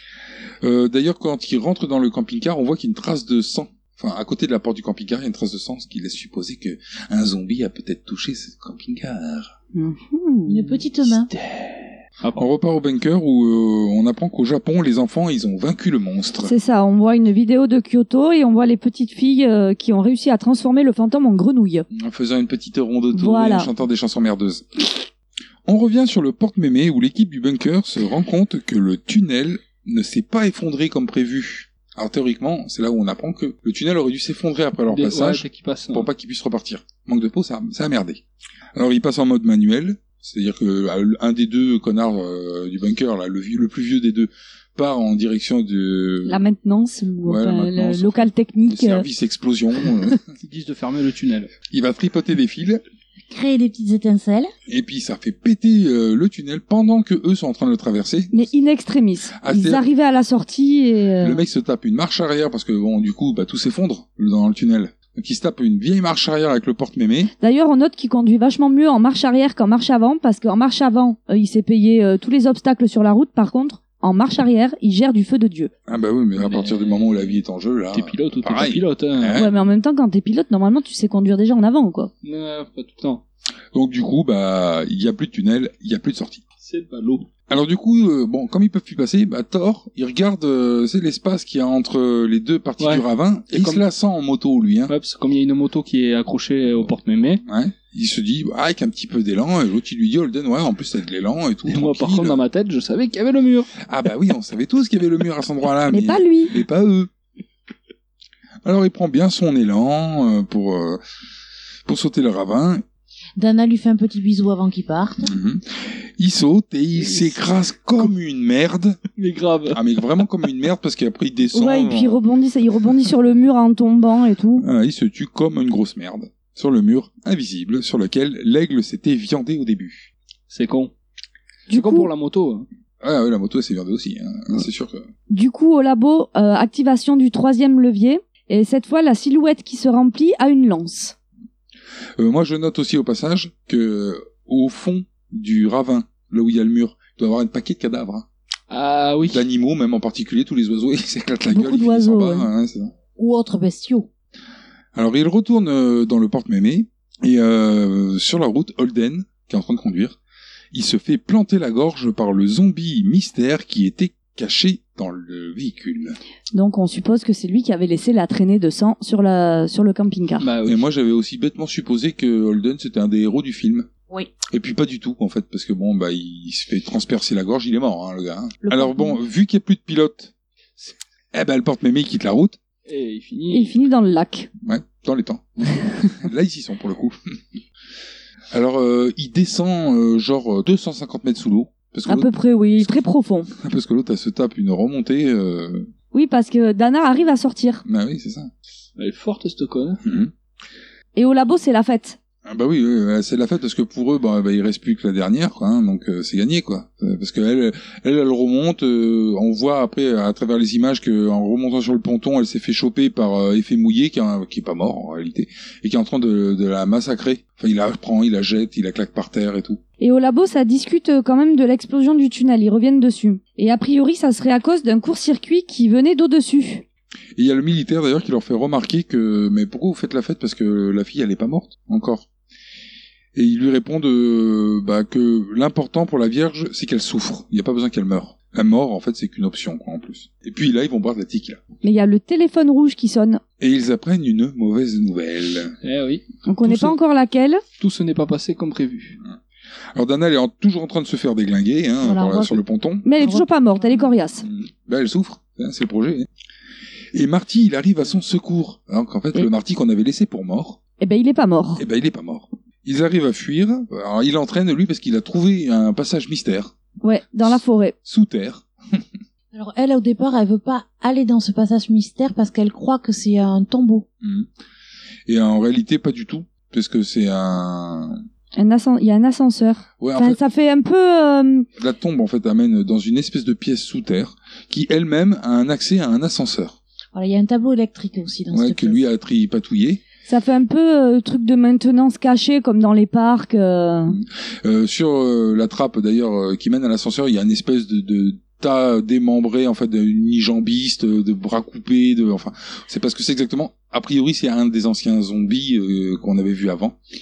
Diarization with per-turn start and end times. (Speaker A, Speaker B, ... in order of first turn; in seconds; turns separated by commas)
Speaker A: 0.6-9.5, Speaker B: 9.7-10.8, Speaker C: 10.4-11.3, Speaker D: 11.3-12.4, Speaker A: 12.3-16.5, Speaker B: 16.4-21.9, Speaker A: 21.9-25.1, Speaker B: 23.1-23.7, Speaker A: 25.6-38.2, Speaker D: 34.9-36.1, Speaker A: 38.7-46.5, Speaker B: 46.2-49.0, Speaker A: 47.2-50.2, Speaker D: 50.4-51.5, Speaker A: 51.7-52.8, Speaker C: 53.3-54.5, Speaker A: 54.7-58.5, Speaker B: 58.3-61.4, Speaker A: 59.4-59.9, Speaker A: 61.2-67.3, Speaker B: 67.4-75.7, Speaker A: 75.9-79.5, Speaker D: 76.4-77.4, Speaker D: 77.9-79.4, Speaker B: 79.3-82.1, Speaker D: 82.2-83.2, Speaker A: 83.7-86.4, Speaker D: 86.6-87.3, Speaker A: 87.5-94.9, Speaker D: 92.8-93.8, Speaker D: 94.9-97.4, Speaker A: 97.4-102.4, Speaker D: 101.7-103.7, Speaker A: 103.8-107.1, Speaker B: 105.9-106.5, Speaker A: 108.6-111.0, Speaker A: 111.8-112.8, Speaker C: 113.4-115.3, Speaker A: 115.2-119.0, Speaker D: 117.0-117.4, Speaker D: 119.2-119.8, Speaker A: 119.7-122.2, Speaker B: 121.5-124.6, Speaker A: 124.6-130.1, Speaker D: 130.5-130.9, Speaker B: 131.7-132.1, Speaker D: 131.7-132.7, Speaker A: 133.0-135.1, Speaker B: 135.3-141.1, Speaker A: 142.2-148.3, Speaker D: 148.7-149.4, Speaker A: 149.3-152.9, Speaker B: 151.5-152.5, Speaker C: 153.1-154.1, Speaker A: 154.9-160.2, Speaker A: 160.7-166.2, Speaker B: 166.5-170.4, Speaker D: 170.4-170.9, Speaker A: 170.6-173.9, Speaker A: 174.5-180.3, Speaker C: 178.7-179.1, Speaker A: 181.3-182.6, Speaker D: 182.9-183.8, Speaker B: 183.5-184.5, Speaker A: 184.6-187.2, Speaker A: 188.5-195.9, Speaker B: 192.1-193.5, Speaker B: 196.1-197.8, Speaker A: 197.8-198.5, Speaker D: 199.0-200.0, Speaker A: 200.0-200.3, Speaker B: 201.2-202.2, Speaker A: 202.4-219.8, Speaker B: 220.0-226.8, Speaker A: 227.3-232.3, Speaker A: 233.3-241.6, Speaker B: 241.8-243.4, Speaker A: 243.6-245.8, Speaker D: 245.8-246.2, Speaker B: 246.5-247.6, Speaker D: 247.8-249.2, Speaker A: 249.9-253.1, Speaker C: 252.0-252.6, Speaker B: 253.0-254.4, Speaker C: 253.2-253.4, Speaker A: 254.4-256.3, Speaker A: 257.1-260.8, Speaker B: 261.0-261.8, Speaker A: 261.8-266.8, Speaker B: 267.0-267.9, Speaker A: 267.4-269.0, Speaker C: 269.5-274.1, Speaker A: 274.2-274.5, Speaker A: 275.3-278.2, Speaker B: 278.6-281.7, Speaker A: 280.0-280.4, Speaker A: 281.8-286.8, Speaker C: 287.1-289.0, Speaker A: 288.5-290.0, Speaker B: 290.3-294.1, Speaker A: 294.1-307.0